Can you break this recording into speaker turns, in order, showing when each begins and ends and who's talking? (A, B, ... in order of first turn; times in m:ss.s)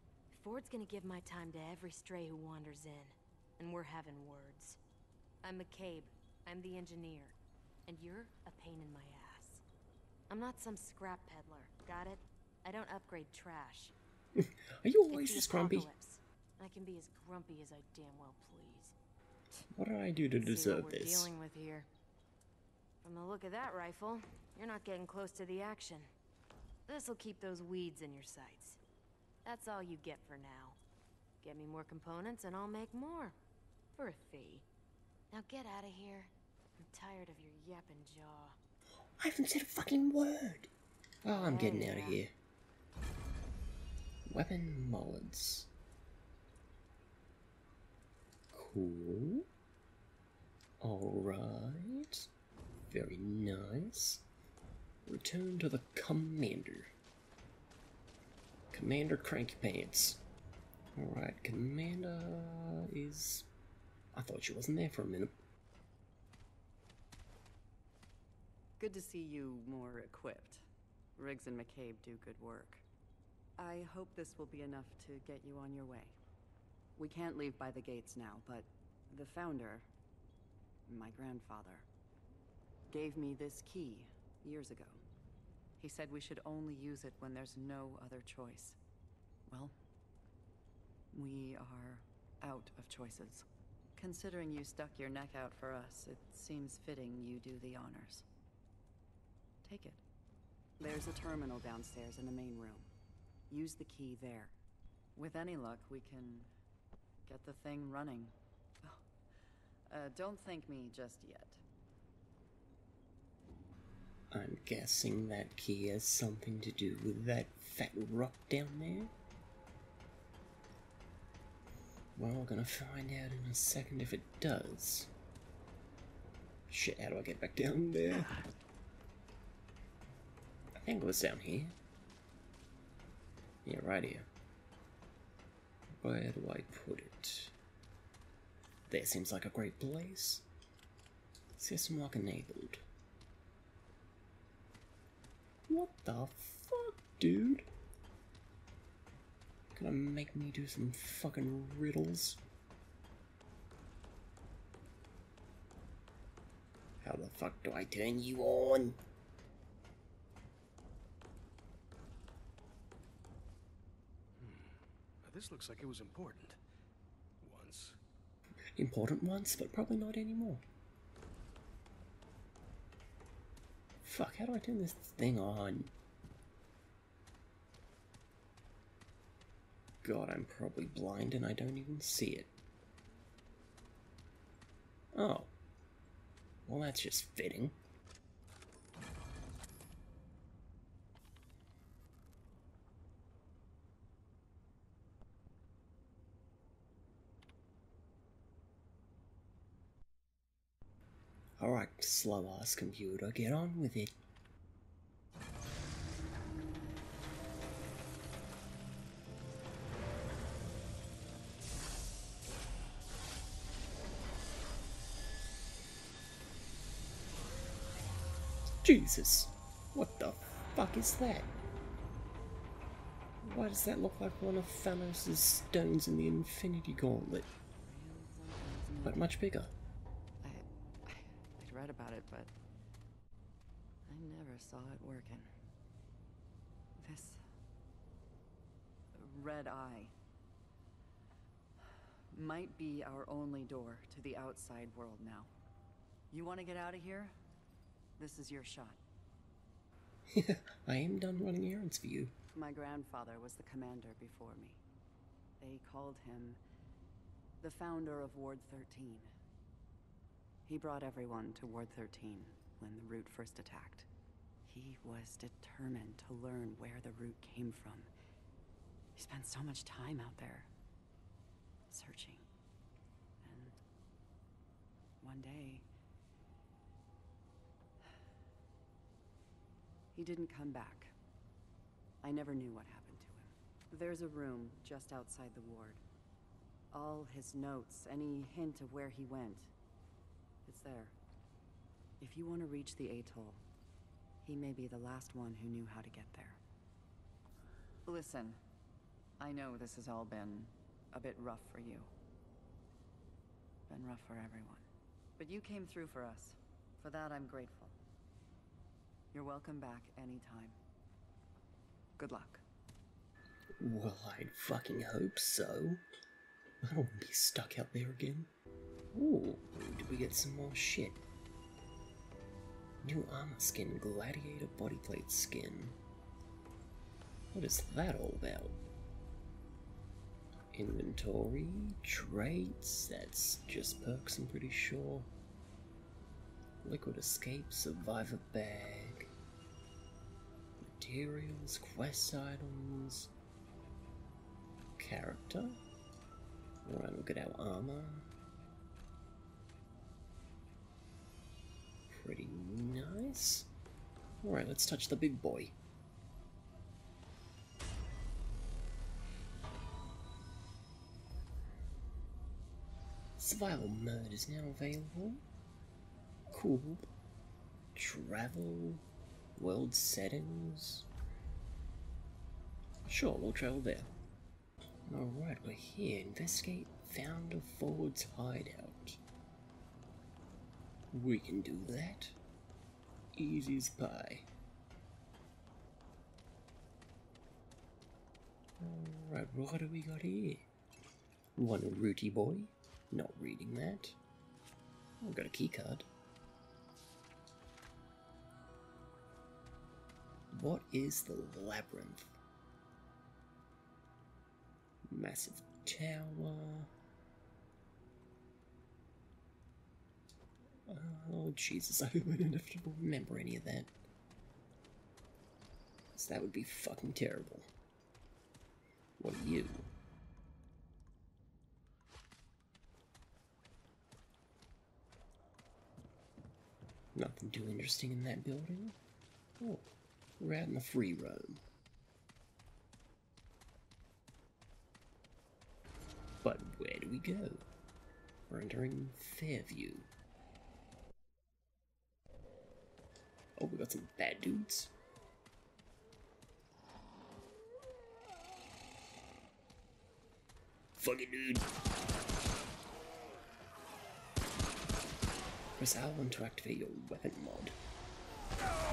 0:00.3-0:04.8 A
0:05.4-0:07.3 A
0:07.9-0:09.6 A
0:10.3-0:13.9 A
0:14.3-0:15.9 B
0:15.1-0:18.9 A
0:19.7-0:21.3 B
0:20.4-0:21.9 A
0:23.0-0:26.1 A
0:26.8-0:28.8 A
0:29.4-0:30.8 A
0:31.4-0:33.4 A
0:33.9-0:34.6 A
0:35.3-0:38.6 A
0:39.2-0:40.7 B
0:41.2-0:42.3 B
0:41.3-0:42.2 A
0:44.2-0:45.7 B
0:48.5-0:49.5 B
0:50.8-0:52.3 B
0:52.9-0:54.2 B
0:55.0-0:56.9 B
0:58.7-1:00.2 B
1:00.9-1:03.5 B
1:04.1-1:05.4 B
1:08.8-1:12.8 C
1:13.6-1:16.2 C
1:17.0-1:19.9 C
1:20.9-1:21.9 C
1:22.9-1:25.0 C
1:25.8-1:28.8 C
1:29.5-1:29.7 C
1:31.1-1:38.2 C
1:39.6-1:40.0 C
1:40.8-1:42.9 C
1:43.5-1:44.6 C
1:45.2-1:46.5 C
1:47.2-1:49.0 C
1:49.9-1:51.6 C
1:54.3-1:59.1 B
2:02.2-2:05.1 B
2:06.7-2:08.4 B
2:10.8-2:11.7 B
2:13.6-2:14.3 B
2:16.0-2:17.5 B
2:18.9-2:20.4 B
2:21.6-2:22.8 B
2:25.7-2:27.7 B
2:29.7-2:32.4 B
2:37.0-2:39.0 B
2:44.4-2:46.6 D
2:47.4-2:48.0 D
2:48.8-2:50.6 B
2:54.0-2:55.9 B
3:00.0-3:02.5 B
3:05.1-3:05.5 B
3:06.6-3:07.8 B
3:21.6-3:24.1 B
3:38.8-3:41.5 B
3:43.4-3:47.5 B
3:47.8-3:49.3 C
3:49.0-3:49.7 B
3:50.4-3:52.5 C
3:54.1-3:55.5 C
3:57.0-3:57.4 C
3:59.1-4:00.1 C
4:02.3-4:05.5 C
4:06.3-4:07.3 C
4:08.2-4:09.0 C
4:10.3-4:12.3 B
4:12.5-4:14.8 C
4:15.6-4:16.6 C
4:17.6-4:19.3 C
4:20.6-4:24.1 C
4:24.6-4:28.1 C
4:29.2-4:30.7 C
4:31.9-4:32.5 C
4:33.4-4:33.8 C
4:35.2-4:35.9 C
4:40.1-4:41.1 C
4:42.2-4:46.0 C
4:46.9-4:49.7 C
4:50.6-4:51.1 C
4:52.2-4:53.6 C
4:54.4-4:56.6 C
4:58.0-4:58.6 C
4:59.4-5:02.1 C
5:03.9-5:04.8 C
5:05.4-5:08.0 C
5:09.3-5:10.8 C
5:12.2-5:12.6 C
5:13.8-5:16.0 B
5:16.8-5:18.5 B
5:19.1-5:21.2 B
5:23.0-5:26.0 B
5:27.5-5:28.8 B
5:30.7-5:35.3 B
5:36.8-5:39.3 B
5:40.8-5:43.3 B
5:45.0-5:45.8 B
5:46.8-5:48.3 B
5:52.1-5:53.7 B
5:54.4-5:55.7 B
6:03.4-6:05.4 B
6:06.5-6:07.1 B
6:07.9-6:09.0 B
6:09.6-6:11.1 B
6:13.1-6:14.1 B
6:15.0-6:19.2 B
6:21.1-6:22.4 B
6:23.3-6:24.5 B
6:28.8-6:30.7 B
6:31.6-6:34.2 B
6:35.2-6:36.0 B
6:40.5-6:42.3 B
6:45.1-6:46.9 B
6:50.8-6:53.9 B
6:56.1-6:57.7 B
6:59.2-6:59.9 B
7:07.1-7:09.0 B
7:09.6-7:11.6 B
7:16.4-7:17.6 B
7:18.5-7:20.1 B
7:23.6-7:24.9 B
7:30.9-7:31.6 B
7:35.8-7:37.7 B